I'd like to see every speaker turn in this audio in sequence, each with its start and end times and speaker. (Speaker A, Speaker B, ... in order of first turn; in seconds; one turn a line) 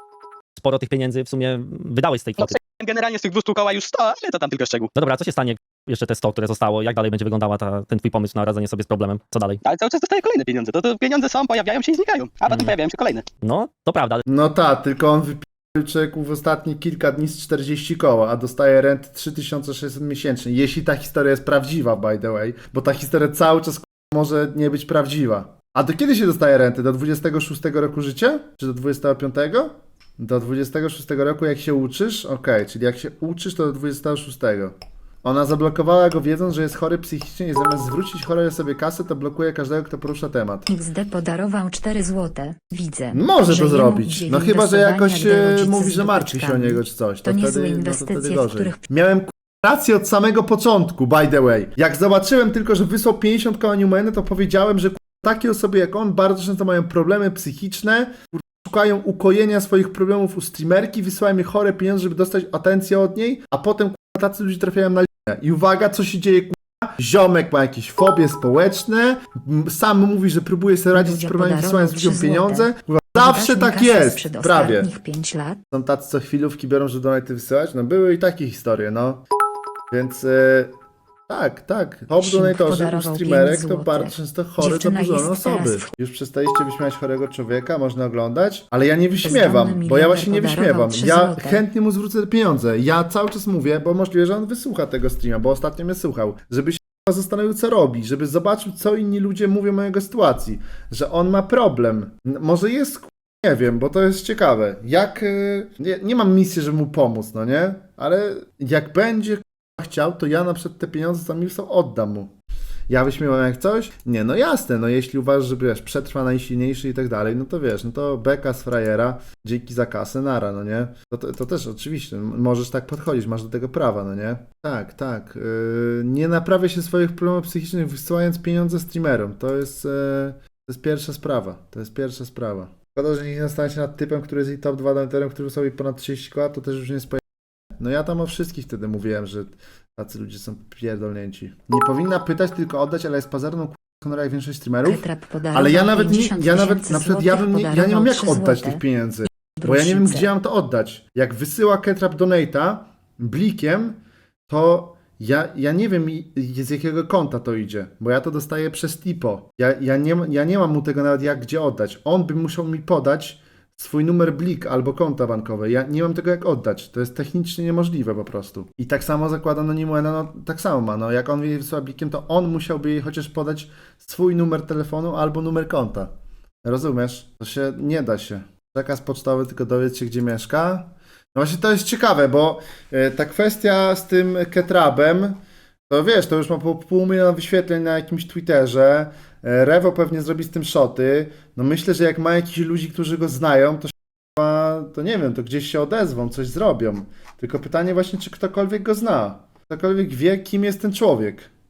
Speaker A: 0.6-2.6
Speaker B: 2.4-4.9
Speaker A: 4.9-9.6
Speaker B: 9.6-13.2
Speaker A: 12.5-12.8
Speaker A: 13.4-14.3
Speaker C: 14.3-40.7
Speaker D: 40.7-48.8
Speaker C: 43.1-74.9
Speaker D: 70.9-75.6
Speaker C: 75.7-79.2
Speaker C: 79.9-80.8
Speaker C: 81.3-112.3
Speaker D: 82.2-85.9
Speaker D: 89.2-91.6
Speaker C: 112.9-137.2
Speaker C: 137.8-154.0
Speaker D: 144.8-148.8
Speaker D: 149.3-150.3
Speaker C: 154.5-176.1
Speaker C: 176.6-201.5